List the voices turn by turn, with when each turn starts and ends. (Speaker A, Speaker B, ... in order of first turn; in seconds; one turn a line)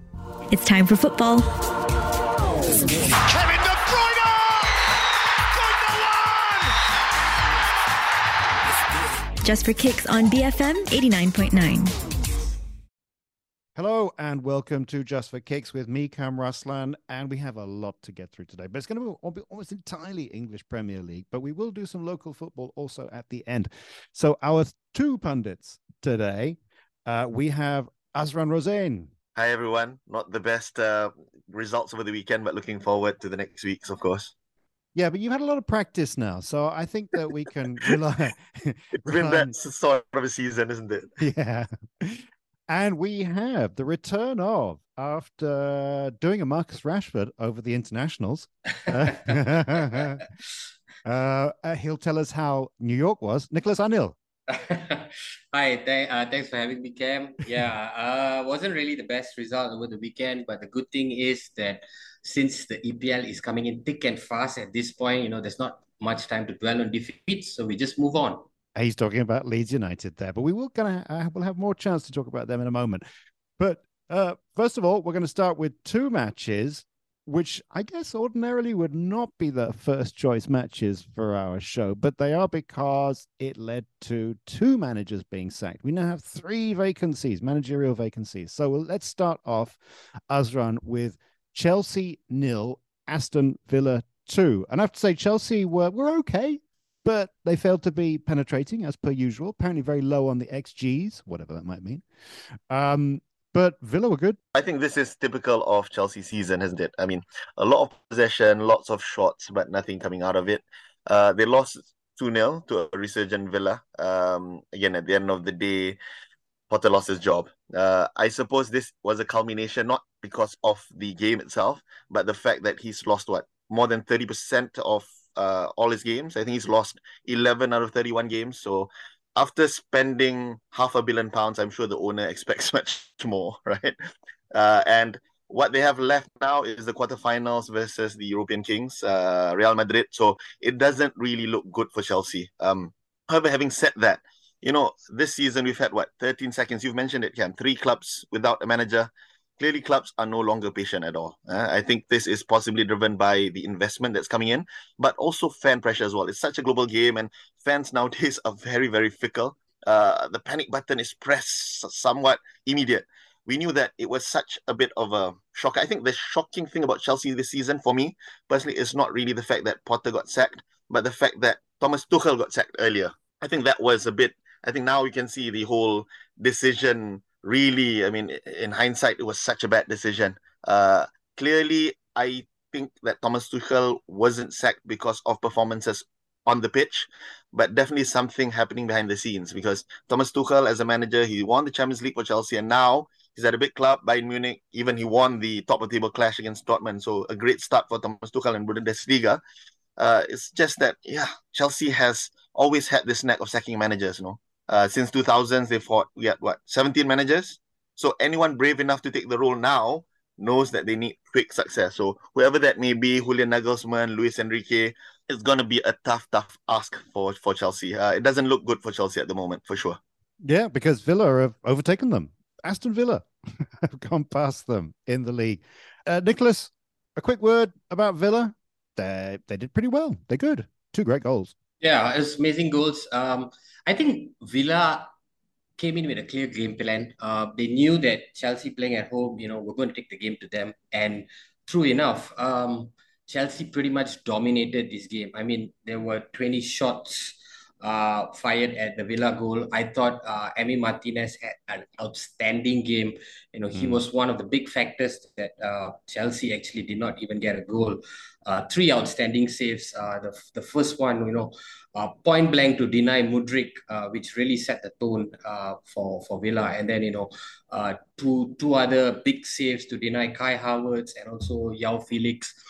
Speaker A: 0.5-1.5
Speaker B: 2.7-4.9
Speaker B: 5.5-6.7
Speaker A: 9.4-11.9
Speaker C: 13.8-29.1
Speaker D: 29.4-34.3
Speaker C: 34.9-39.5
Speaker D: 39.0-41.1
Speaker C: 41.2-50.2
Speaker C: 51.0-54.1
Speaker E: 54.5-68.4
Speaker C: 68.7-73.0
Speaker C: 73.6-102.0
Speaker C: 102.7-104.4
Speaker D: 104.5-116.0
Speaker D: 116.7-133.9
Speaker D: 134.5-199.4
Speaker D: 200.0-220.0
Speaker C: 220.4-231.5
Speaker E: 231.8-235.1
Speaker E: 235.8-272.5
Speaker C: 253.7-254.0